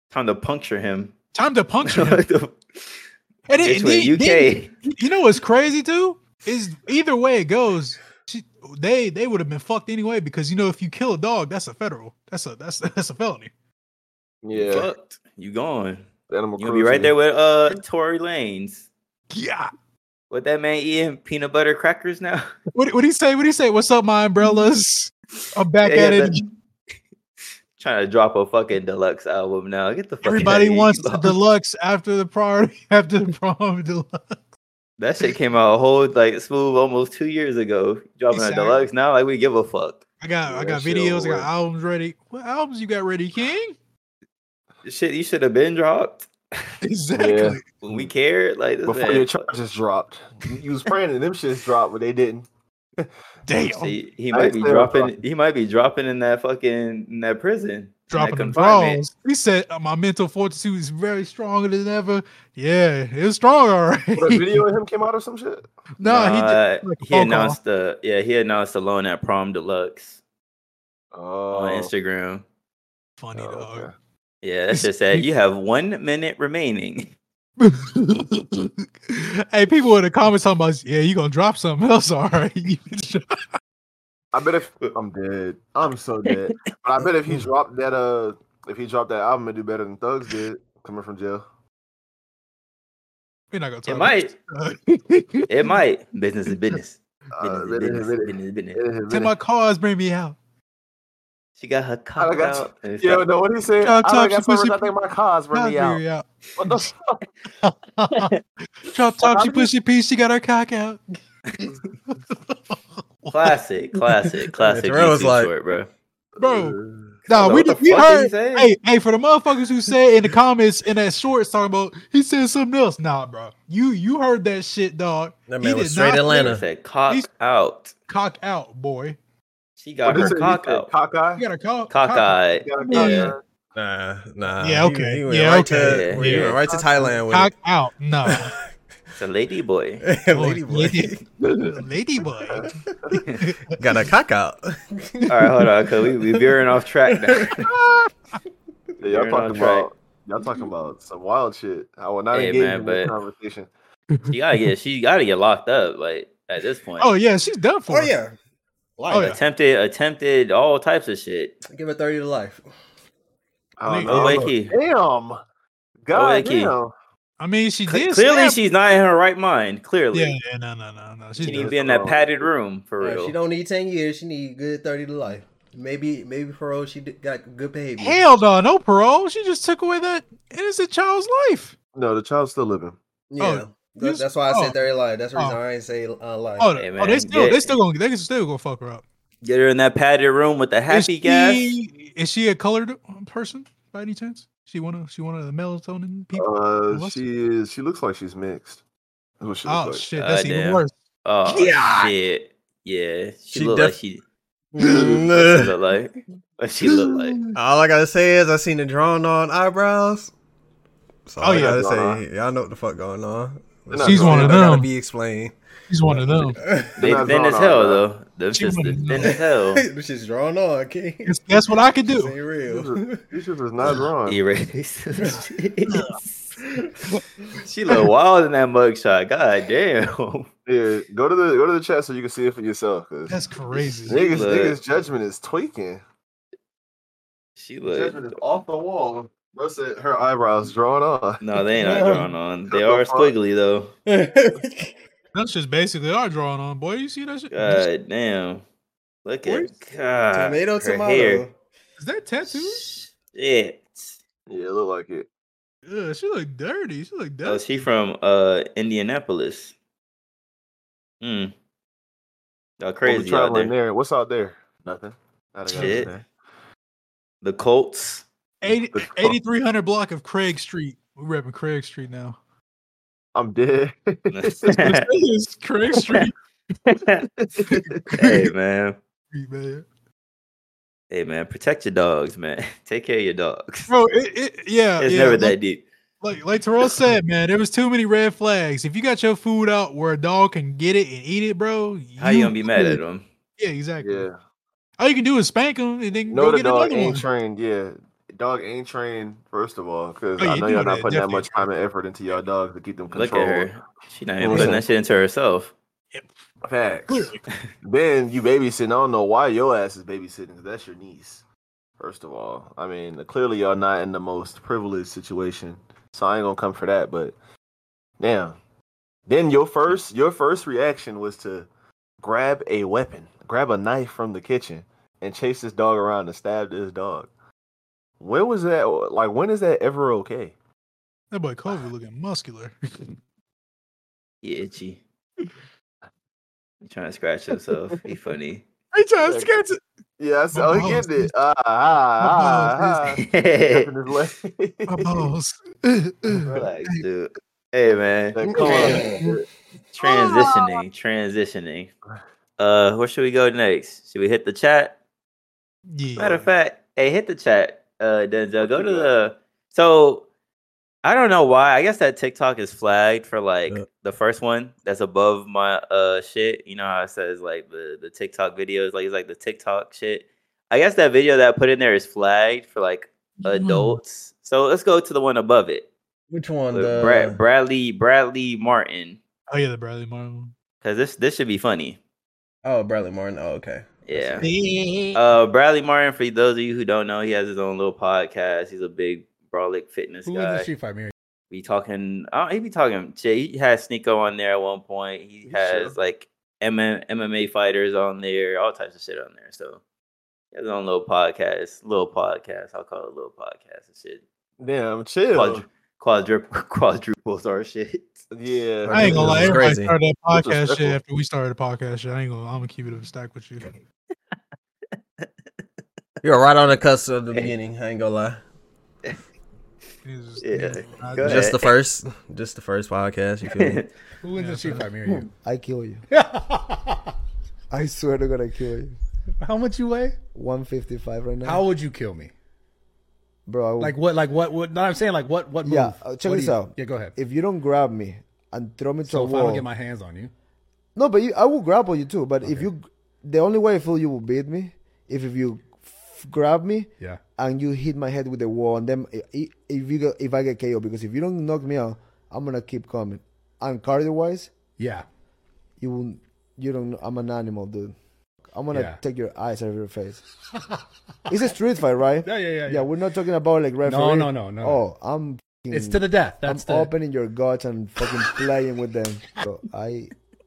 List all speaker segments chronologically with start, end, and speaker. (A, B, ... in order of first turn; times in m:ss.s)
0:00.1-0:01.1 A
0:01.3-0:02.2 B
0:01.8-0:02.9 A
0:03.5-0:13.5 B
0:03.6-0:04.7 A
0:14.4-0:14.9 C
0:14.5-0:16.0 A
0:16.3-0:17.1 C
0:16.6-0:18.9 A
0:19.3-0:19.7 B
0:20.3-0:22.5 A
0:22.7-0:26.4 B
0:25.8-0:26.4 A
0:27.8-0:31.3 A
0:30.2-0:34.4 B
0:35.0-0:40.0 A
0:38.3-0:38.8 B
0:40.2-0:43.8 B
0:40.4-0:41.5 C
0:44.8-0:46.7 A
0:46.8-0:47.7 B
0:47.2-0:48.1 C
0:47.8-0:49.4 A
0:48.8-0:52.4 C
0:53.5-0:54.0 B
0:53.8-0:59.0 A
0:54.3-0:55.1 C
0:58.1-1:04.6 B
1:04.2-1:05.6 C
1:06.0-1:07.6 B
1:06.0-1:10.2 A
1:11.1-1:11.9 C
1:11.5-1:12.4 A
1:13.2-1:13.9 B
1:13.4-1:13.9 C
1:14.4-1:17.1 A
1:14.7-1:15.3 B
1:17.6-1:23.4 B
1:24.3-1:31.4 C
1:33.5-1:35.7 B
1:33.9-1:34.3 A
1:35.5-1:38.8 A
1:37.3-1:39.3 C
1:39.1-1:40.4 B
1:41.6-1:43.2 A
1:42.2-1:46.0 C
1:43.8-1:44.9 B
1:45.5-1:46.9 B
1:46.6-1:47.2 C
1:47.6-1:48.3 B
1:48.8-1:51.0 B
1:49.2-1:49.7 C
1:52.1-1:53.6 B
1:53.3-1:55.9 A
1:54.6-1:55.5 D
1:56.4-1:57.2 C
1:56.4-2:06.5 B
1:57.3-1:58.7 A
2:05.5-2:06.6 D
2:06.3-2:07.9 A
2:08.1-2:09.2 B
2:09.8-2:10.9 A
2:10.0-2:11.4 C
2:11.4-2:13.3 B
2:11.9-2:13.3 A
2:12.6-2:13.4 C
2:13.7-2:17.5 D
2:14.6-2:18.5 B
2:15.8-2:16.6 A
2:18.3-2:18.5 D
2:19.2-2:20.0 A
2:20.0-2:21.2 D
2:20.3-2:22.7 B
2:23.4-2:23.8 B
2:23.8-2:25.5 D
2:25.3-2:27.7 A
2:27.1-2:27.5 D
2:27.6-2:28.1 B
2:29.0-2:33.7 C
2:29.0-2:29.9 A
2:32.3-2:33.1 A
2:34.3-2:37.1 A
2:37.0-2:38.1 B
2:37.9-2:38.3 D
2:39.0-2:39.3 D
2:39.1-2:39.4 B
2:39.1-2:41.6 A
2:41.7-2:42.6 D
2:43.8-2:45.4 C
2:43.8-2:44.5 B
2:44.0-2:44.7 A
2:46.0-2:46.9 C
2:46.1-2:46.7 A
2:47.4-2:48.6 B
2:47.9-2:50.3 A
2:50.1-2:51.7 B
2:51.4-2:52.5 C
2:51.4-2:53.3 A
2:53.0-2:58.2 D
2:58.0-3:01.7 B
3:01.9-3:03.0 C
3:03.3-3:06.7 D
3:03.4-3:04.7 B
3:06.6-3:09.0 B
3:06.8-3:07.8 A
3:09.4-3:11.7 A
3:10.9-3:17.2 B
3:16.3-3:18.8 C
3:19.4-3:20.0 C
3:19.6-3:20.9 B
3:20.2-3:24.2 A
3:21.5-3:22.0 B
3:23.5-3:23.9 D
3:24.7-3:25.7 D
3:24.9-3:27.4 A
3:27.5-3:30.3 D
3:31.3-3:35.6 D
3:31.4-3:31.8 B
3:31.4-3:32.2 C
3:33.9-3:34.7 C
3:34.0-3:34.9 B
3:35.9-3:36.6 B
3:36.1-3:37.0 D
3:37.0-3:38.0 C
3:37.0-3:39.8 A
3:38.5-3:39.4 B
3:39.1-3:41.4 D
3:41.2-3:42.3 B
3:42.0-3:43.2 D
3:42.7-3:44.4 C
3:44.2-3:46.5 A
3:45.9-3:46.2 B
3:47.6-3:50.5 A
3:50.6-3:56.0 C
3:53.3-3:54.2 B
3:54.1-3:54.8 A
3:57.6-3:58.3 A
3:57.9-4:01.4 C
4:01.4-4:03.9 A
4:01.8-4:02.3 D
4:02.7-4:03.3 C
4:04.0-4:04.9 D
4:05.3-4:07.8 B
4:07.5-4:08.6 A
4:09.2-4:11.4 A
4:09.4-4:09.7 D
4:10.3-4:11.5 D
4:12.0-4:12.9 B
4:12.5-4:14.2 A
4:14.5-4:15.2 C
4:15.9-4:17.7 B
4:17.4-4:19.7 A
4:21.2-4:21.5 A
4:22.8-4:23.7 A
4:23.0-4:26.2 C
4:25.7-4:26.1 A
4:25.7-4:26.0 B
4:27.4-4:28.2 A
4:28.6-4:32.4 B
4:28.7-4:29.4 C
4:33.3-4:34.8 C
4:34.3-4:35.0 A
4:34.7-4:36.3 B
4:36.0-4:36.3 A
4:36.9-4:37.3 A
4:37.4-4:38.0 C
4:37.7-4:38.4 B
4:38.2-4:39.0 A
4:39.3-4:39.8 B
4:41.1-4:43.9 A
4:43.9-4:45.6 B
4:45.0-4:45.8 A
4:46.2-4:53.0 B
4:52.2-4:53.2 A
4:53.6-4:54.3 B
4:54.0-4:54.4 C
4:55.0-4:57.2 B
4:56.3-5:03.7 C
5:00.4-5:01.7 B
5:03.1-5:05.7 A
5:04.4-5:04.8 C
5:06.6-5:11.4 C
5:07.1-5:07.4 B
5:12.0-5:17.3 C
5:18.2-5:18.5 C
5:19.3-5:21.7 C
5:22.2-5:27.3 C
5:28.2-5:30.5 C
5:31.3-5:33.1 B
5:34.4-5:35.0 A
5:36.8-5:38.6 A
5:38.9-5:39.8 B
5:39.2-5:39.5 C
5:40.2-5:45.3 C
5:40.5-5:41.3 B
5:42.2-5:43.0 B
5:43.2-5:43.9 A
5:44.9-5:47.0 B
5:46.5-5:49.0 A
5:48.3-5:49.4 C
5:48.7-5:49.3 B
5:48.7-5:49.0 D
5:49.9-5:51.9 A
5:52.6-5:54.9 A
5:55.9-5:56.5 B
5:56.2-6:00.2 A
5:58.6-5:59.1 C
6:01.0-6:15.9 A
6:13.4-6:14.0 B
6:16.3-6:17.4 D
6:16.7-6:19.2 A
6:19.5-6:20.5 B
6:20.8-6:22.0 A
6:22.6-6:24.4 D
6:24.0-6:24.4 A
6:24.4-6:25.2 B
6:25.1-6:30.7 A
6:30.2-6:31.1 E
6:31.5-6:39.8 A
6:35.5-6:35.9 C
6:40.5-6:44.2 A
6:44.6-6:45.6 C
6:45.3-6:48.2 A
6:48.3-6:49.7 C
6:48.9-6:49.9 D
6:48.9-6:53.7 B
6:50.3-6:51.0 C
6:56.2-6:58.4 D
7:00.0-7:01.5 B
7:00.4-7:01.7 A
7:01.2-7:03.8 D
7:03.5-7:03.9 A
7:04.2-7:05.3 E
7:04.4-7:04.9 B
7:05.4-7:06.0 F
7:06.1-7:07.1 E
7:07.7-7:09.0 F
7:09.4-7:10.2 E
7:10.3-7:11.6 F
7:11.4-7:12.3 E
7:13.4-7:14.0 F
7:13.8-7:17.1 E
7:15.6-7:19.6 F
7:19.1-7:20.3 E
7:20.9-7:34.5 F
7:22.4-7:22.7 E
7:34.8-7:35.0 E
7:35.8-7:37.9 F
7:38.5-7:40.2 F
7:38.7-7:39.0 E
7:41.3-7:50.1 F
7:42.2-7:42.9 E
7:43.8-7:44.8 E
7:45.7-7:46.9 E